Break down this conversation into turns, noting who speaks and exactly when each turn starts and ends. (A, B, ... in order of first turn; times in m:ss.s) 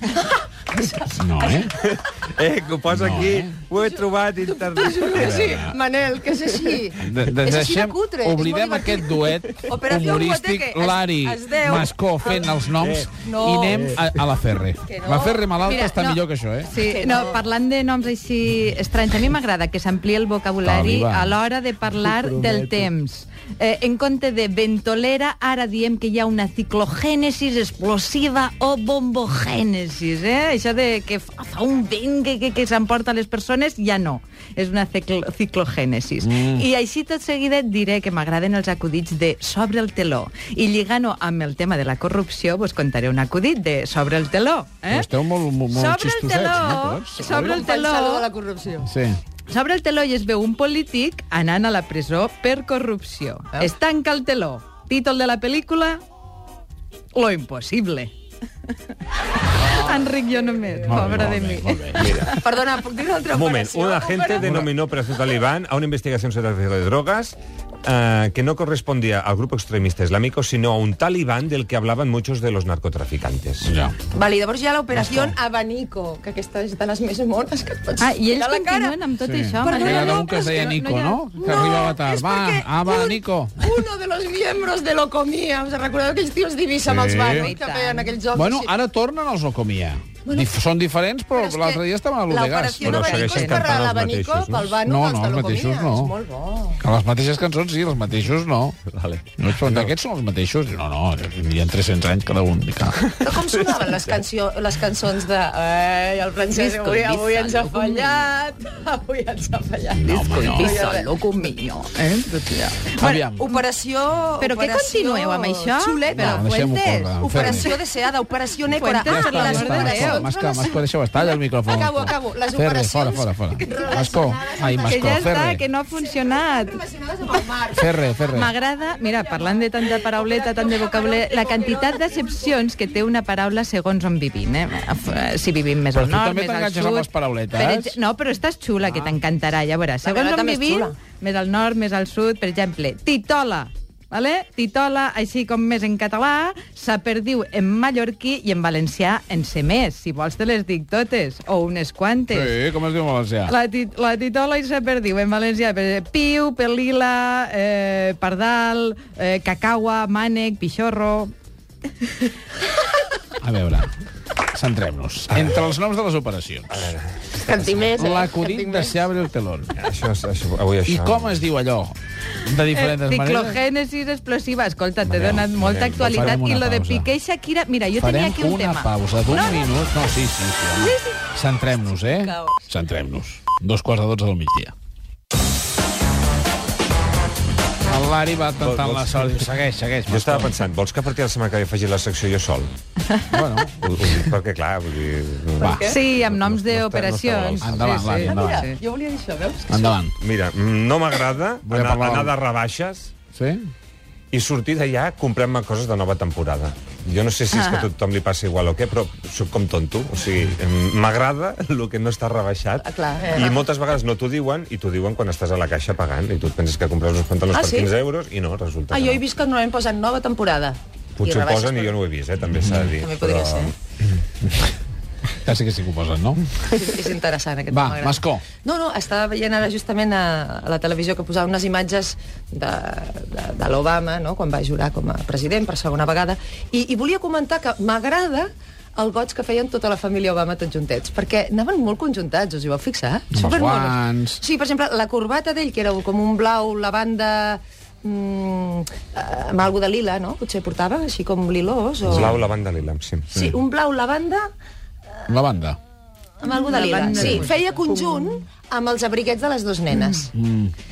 0:00.3-0:01.7 A
0:01.2-0:01.7 B
0:01.7-0:05.5 C
0:02.9-0:03.6 B
0:03.8-0:12.6 A
0:05.1-0:05.8 B
0:07.0-0:16.7 B
0:12.8-0:13.1 C
0:13.1-0:13.8 A
0:13.7-0:14.0 C
0:14.8-0:15.7 A
0:15.6-0:45.1 D
0:16.8-0:17.4 A
0:20.6-0:21.4 B
0:36.2-0:36.7 B
0:44.9-0:47.6 B
0:45.7-0:48.3 D
0:47.3-0:48.9 A
0:48.8-0:49.2 B
0:49.5-0:56.0 D
0:57.1-0:58.1 D
0:59.6-1:02.4 D
1:00.8-1:02.1 B
1:02.0-1:02.4 C
1:02.3-1:04.7 A
1:03.3-1:13.7 C
1:13.6-1:14.0 B
1:14.1-1:19.0 A
1:18.0-1:21.4 D
1:19.2-1:23.7 B
1:19.6-1:20.8 A
1:21.4-1:28.7 A
1:26.8-1:27.5 B
1:27.3-1:28.2 D
1:28.4-1:33.2 B
1:30.3-1:30.5 A
1:31.4-1:36.8 A
1:32.8-1:34.8 C
1:33.1-1:33.7 D
1:34.9-1:36.1 B
1:36.8-1:38.8 B
1:38.9-1:39.9 C
1:39.4-1:43.0 B
1:43.1-1:43.6 C
1:43.2-1:51.6 A
1:46.5-1:48.3 D
1:50.0-1:50.7 B
1:50.1-1:53.1 D
1:53.0-1:53.4 B
1:53.0-1:56.5 A
1:54.4-1:57.8 D
1:56.1-1:57.7 B
1:57.2-2:05.3 A
1:58.7-2:00.2 D
1:59.1-2:05.6 B
2:04.8-2:07.4 D
2:06.0-2:08.0 A
2:07.8-2:08.5 B
2:08.3-2:32.6 D
2:09.4-2:12.0 A
2:15.9-2:18.0 B
2:20.0-2:21.0 A
2:32.3-2:33.5 B
2:33.5-2:41.3 D
2:43.4-2:43.9 B
2:44.5-2:46.9 B
2:45.3-2:45.6 C
2:46.7-2:47.9 C
2:47.4-2:49.0 A
2:48.0-2:49.7 B
2:49.8-2:51.4 C
2:50.9-2:53.6 B
2:52.6-2:59.7 D
2:55.0-2:56.4 C
2:56.0-2:57.1 B
2:58.0-3:04.7 B
3:00.7-3:01.2 D
3:07.9-3:10.5 B
3:08.6-3:09.5 C
3:10.1-3:12.7 C
3:13.3-3:14.3 B
3:13.8-3:18.1 C
3:15.6-3:15.9 B
3:15.6-3:16.0 A
3:15.8-3:18.8 D
3:17.6-3:18.7 B
3:18.1-3:19.9 A
3:19.7-3:20.2 B
3:20.2-3:23.1 C
3:21.6-3:22.4 B
3:23.3-3:23.7 B
3:24.3-3:39.2 C
3:27.5-3:27.9 D
3:32.8-3:33.6 A
3:37.5-3:37.9 A
3:38.9-3:42.0 A
3:41.2-3:43.7 C
3:42.8-3:43.7 A
3:45.4-3:46.5 B
3:46.7-4:12.4 A
3:47.7-3:48.4 B
4:03.3-4:04.4 B
4:12.1-4:13.3 C
4:12.1-4:12.4 B
4:13.3-4:13.6 B
4:13.3-4:14.5 A
4:15.3-4:15.8 B
4:16.4-4:20.3 A
4:16.4-4:18.4 D
4:17.2-4:17.4 B
4:20.4-4:20.7 B